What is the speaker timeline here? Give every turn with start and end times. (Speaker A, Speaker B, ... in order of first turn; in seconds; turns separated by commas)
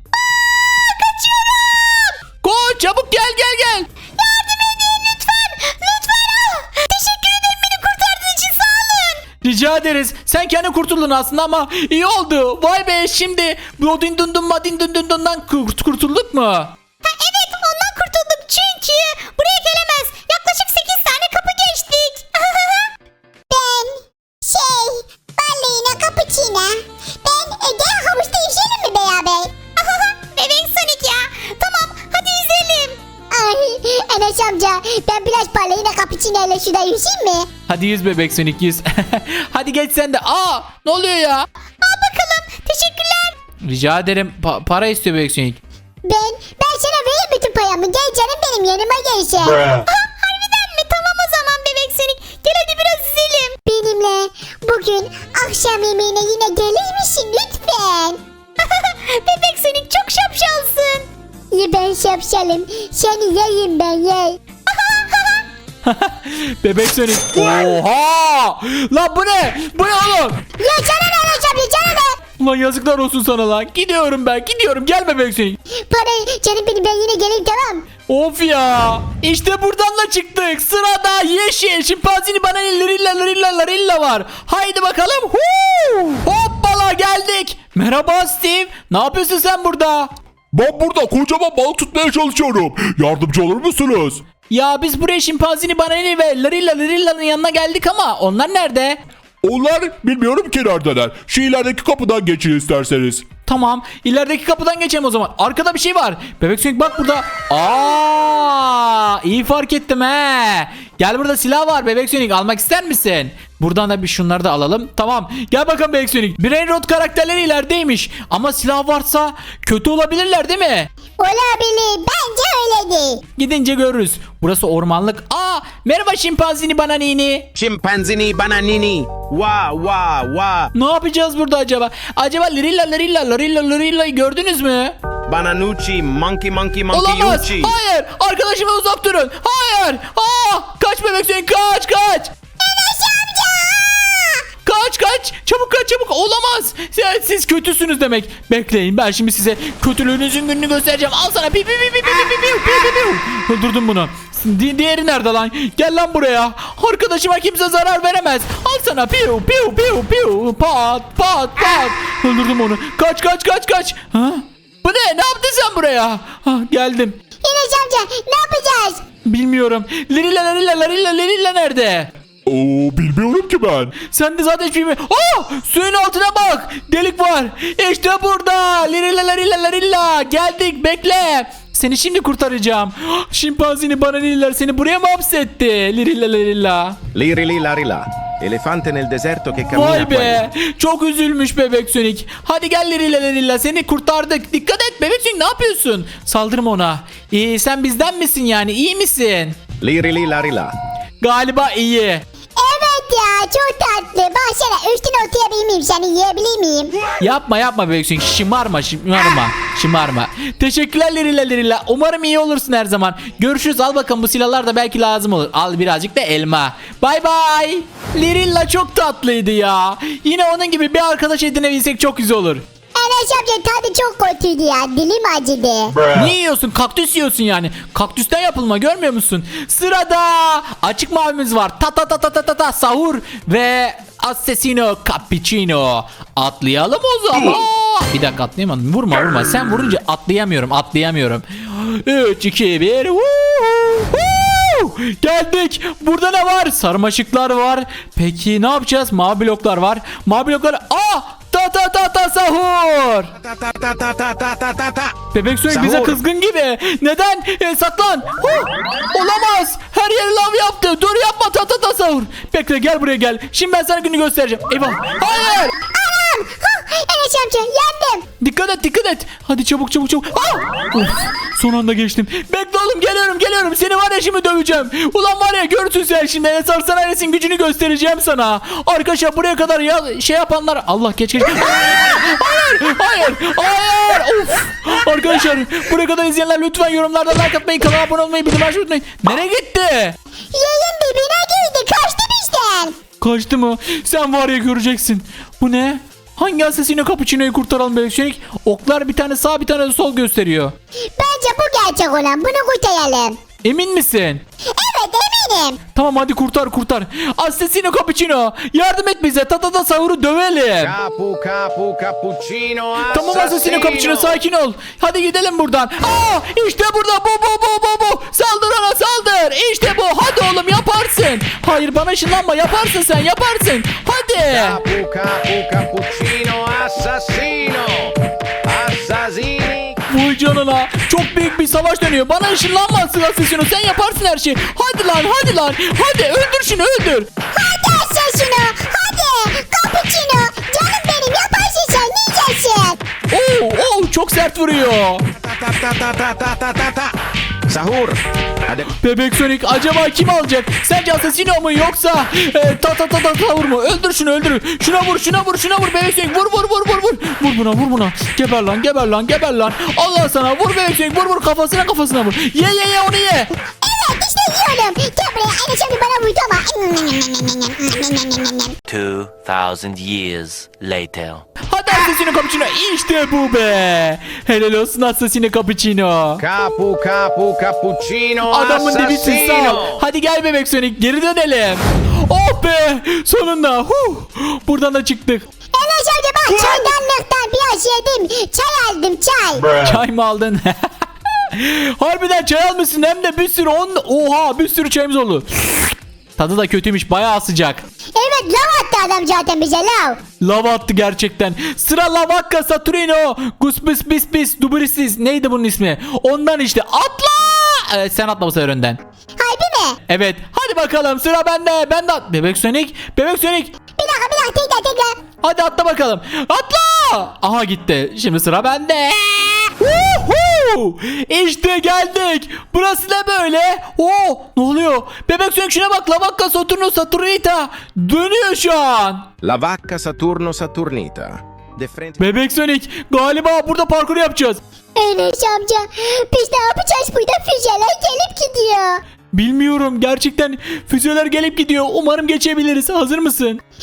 Speaker A: 0.1-2.2, Speaker B: 2.4-3.9, Speaker A: 4.2-9.2, Speaker B: 9.4-16.7, Speaker A: 17.1-22.9, Speaker A: 23.5-37.5, Speaker B: 37.7-41.5, Speaker A: 41.8-43.3, Speaker B: 43.6-45.6, Speaker A: 46.0-49.9, Speaker A: 52.7-58.2, Speaker A: 61.5-64.4, Speaker B: 65.8-70.4, Speaker A: 70.6-72.2, Speaker B: 72.4-75.6, Speaker A: 75.9-77.9, Speaker B: 78.1-90.1, Speaker C: 90.5-94.2, Speaker B: 94.5-99.0, Speaker C: 99.4-103.3, Speaker B: 103.5-120.9, Speaker A: 121.2-123.2, Speaker B: 123.4-127.5, Speaker D: 127.5-130.7, Speaker B: 130.7-135.0, Speaker D: 135.3-137.7, Speaker B: 136.9-142.3, Speaker A: 142.6-144.4, Speaker B: 144.7-167.2, Speaker A: 167.4-169.1, Speaker B: 169.2-172.1, Speaker C: 172.5-173.9, Speaker B: 174.0-187.0, Speaker D: 187.1-190.5, Speaker B: 189.7-199.6, Speaker D: 199.8-200.7, Speaker B: 201.2-202.2, Speaker A: 202.6-207.0, Speaker B: 207.2-222.6, Speaker A: 223.0-226.1, Speaker B: 226.1-253.3, Speaker D: 253.4-255.2, Speaker B: 255.3-265.8, Speaker D: 255.7-256.2, Speaker A: 265.9-268.2, Speaker B: 268.4-290.2, Speaker A: 290.5-293.0, Speaker B: 293.2-300.8, Speaker A: 301.2-303.4, Speaker B: 303.6-304.4, Speaker A: 304.8-305.8, Speaker B: 305.9-311.0, Speaker D: 310.8-314.4, Speaker B: 313.1-324.8, Speaker D: 324.5-330.0, Speaker B: 330.1-337.3, Speaker A: 337.5-343.0, Speaker B: 343.3-345.2, Speaker D: 345.4-347.1, Speaker D: 347.7-348.9, Speaker B: 349.0-363.5, Speaker A: 363.8-368.7, Speaker E: 368.9-371.4, Speaker B: 371.7-376.4, Speaker D: 376.4-380.0, Speaker B: 378.5-385.5, Speaker A: 385.8-389.7, Speaker B: 389.7-390.9, Speaker B: 391.5-397.8, Speaker A: 398.1-400.2, Speaker B: 400.4-409.0, Speaker A: 409.4-410.0, Speaker B: 410.1-413.7, Speaker A: 413.9-415.2, Speaker B: 415.4-429.3, Speaker D: 429.4-432.3, Speaker B: 432.2-434.6, Speaker A: 435.0-439.0, Speaker B: 439.3-443.6